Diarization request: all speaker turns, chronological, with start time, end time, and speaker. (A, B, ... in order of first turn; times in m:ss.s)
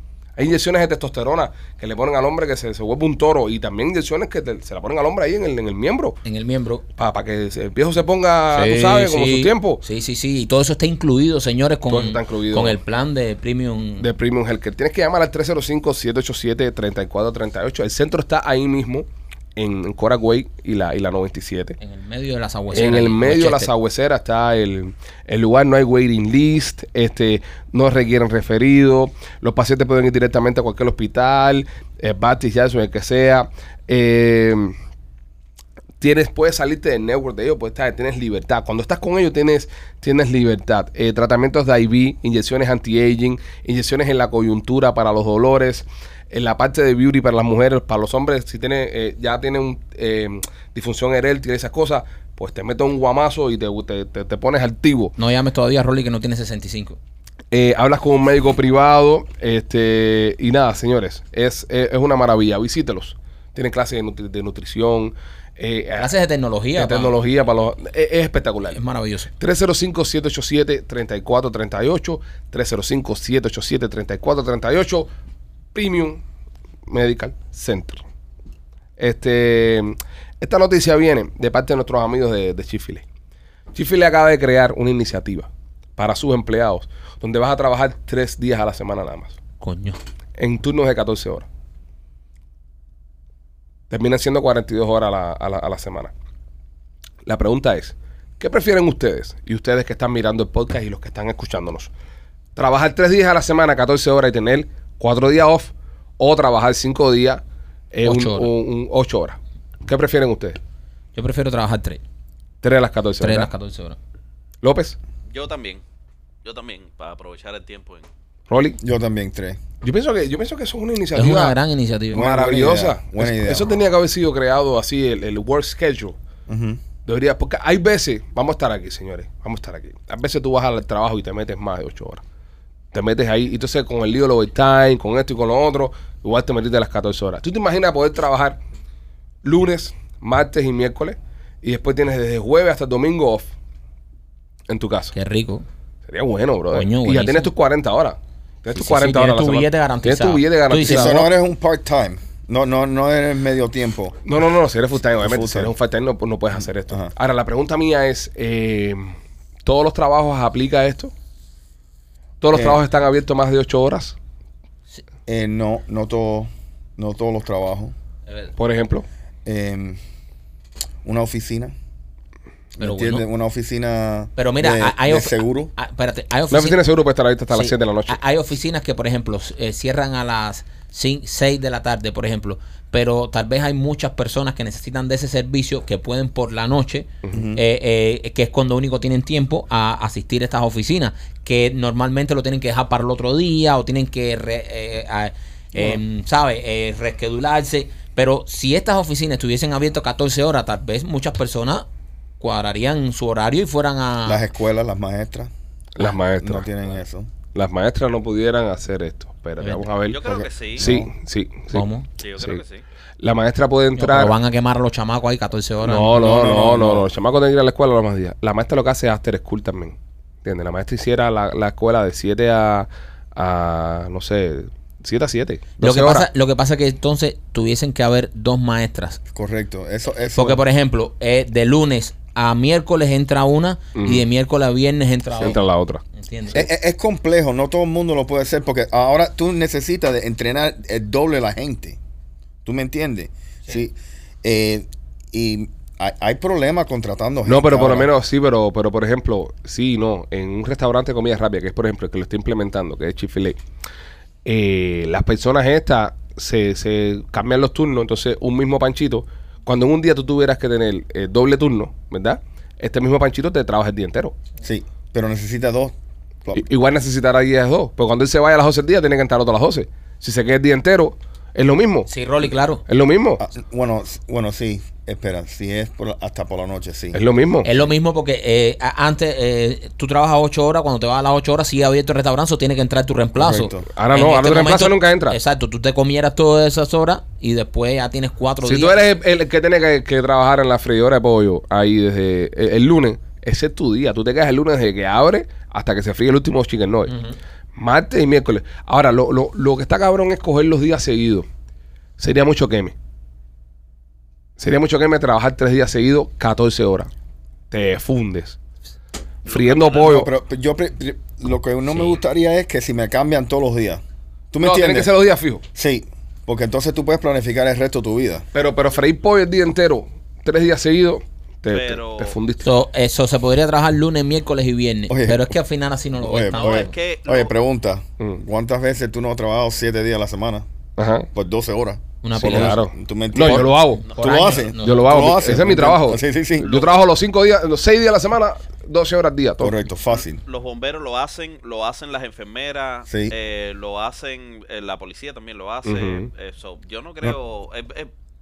0:00.4-0:06.2 A
0:06.2-0:06.8 B
0:07.0-0:09.8 A
0:08.5-0:14.1 B
0:11.9-0:12.8 A
0:14.0-0:21.8 A
0:21.8-0:23.7 B
0:22.7-0:34.7 A
0:36.0-0:55.1 A
0:55.2-0:57.0 B
0:57.5-1:06.1 A
1:06.0-1:07.1 B
1:06.8-1:08.8 A
1:08.7-1:09.3 B
1:09.4-1:15.1 A
1:15.7-1:16.2 A
1:16.9-1:18.0 A
1:19.0-1:23.0 A
1:23.7-1:29.4 A
1:29.6-1:30.0 B
1:30.4-1:31.5 A
1:33.9-1:36.1 A
1:37.2-1:41.9 A
1:42.5-1:50.6 A
1:48.0-1:48.5 B
1:51.1-1:52.0 B
1:52.6-1:53.5 A
1:53.2-1:54.0 B
1:54.6-1:55.0 A
1:55.3-1:55.8 C
1:56.4-1:58.1 C
1:58.5-1:58.8 A
1:58.8-1:59.6 D
1:59.8-2:01.6 A
2:01.1-2:02.2 B
2:02.1-2:06.2 A
2:02.1-2:03.8 D
2:06.5-2:06.8 D
2:07.0-2:12.2 A
2:12.9-2:18.6 A
2:19.4-2:23.5 A
2:24.7-2:25.1 A
2:25.1-2:25.6 B
2:26.1-2:31.2 A
2:26.7-2:27.5 B
2:28.8-2:31.3 B
2:30.8-2:34.2 D
2:34.2-2:41.1 A
2:35.2-2:35.7 D
2:36.5-2:37.1 D
2:42.4-2:44.2 A
2:42.5-2:42.8 D
2:45.3-2:47.9 D
2:48.3-2:48.5 B
2:48.6-2:49.0 A
2:49.4-2:50.0 D
2:51.0-2:51.7 D
2:52.8-2:55.7 D
2:52.8-2:53.2 B
2:54.4-2:56.8 B
2:56.5-2:58.2 A
2:57.5-3:21.9 B
3:07.3-3:07.6 D
3:15.7-3:16.0 D
3:22.4-3:24.4 B
3:24.2-3:25.5 D
3:26.0-3:26.7 A
3:26.0-3:27.3 D
3:27.5-3:31.8 A
3:29.6-3:29.8 B
3:30.1-3:30.9 C
3:30.2-3:31.1 D
3:31.7-3:32.1 B
3:32.2-3:32.8 C
3:33.2-3:34.4 A
3:34.0-3:36.6 B
3:35.8-3:46.3 A
3:36.1-3:37.1 D
3:45.8-3:49.2 B
3:49.3-3:50.6 D
3:50.4-3:55.6 B
3:54.0-3:54.2 A
3:55.4-3:56.0 A
3:56.1-3:56.6 B
3:56.5-4:02.0 D
4:02.6-4:08.1 D
4:07.4-4:13.6 A
4:14.4-4:24.4 A
4:24.6-4:25.9 D
4:26.5-4:32.1 A
4:32.1-4:32.8 B
4:32.9-4:33.4 A
4:33.4-4:37.2 D
4:37.1-4:37.7 A
4:37.6-4:49.0 B
4:43.4-4:43.9 D
4:43.9-4:45.4 A
4:48.6-4:57.1 A
4:57.1-4:57.4 B
4:57.7-5:01.5 A
5:02.2-5:02.9 A
5:04.6-5:07.1 A
5:07.7-5:08.6 A
5:09.4-5:10.3 A
5:09.5-5:10.1 C
5:09.9-5:15.1 D
5:14.6-5:15.6 A
5:15.7-5:18.5 D
5:18.5-5:22.7 A
5:21.7-5:22.4 C
5:22.6-5:26.9 B
5:25.1-5:25.6 D
5:26.2-5:30.6 D
5:26.5-5:27.5 C
5:31.0-5:31.3 A
5:31.3-5:36.8 D
5:32.2-5:32.8 B
5:32.4-5:34.0 A
5:33.4-5:35.3 B
5:34.8-5:39.7 A
5:39.6-5:40.4 D
5:40.4-5:48.1 C
5:43.1-5:43.3 D
5:45.9-5:46.3 A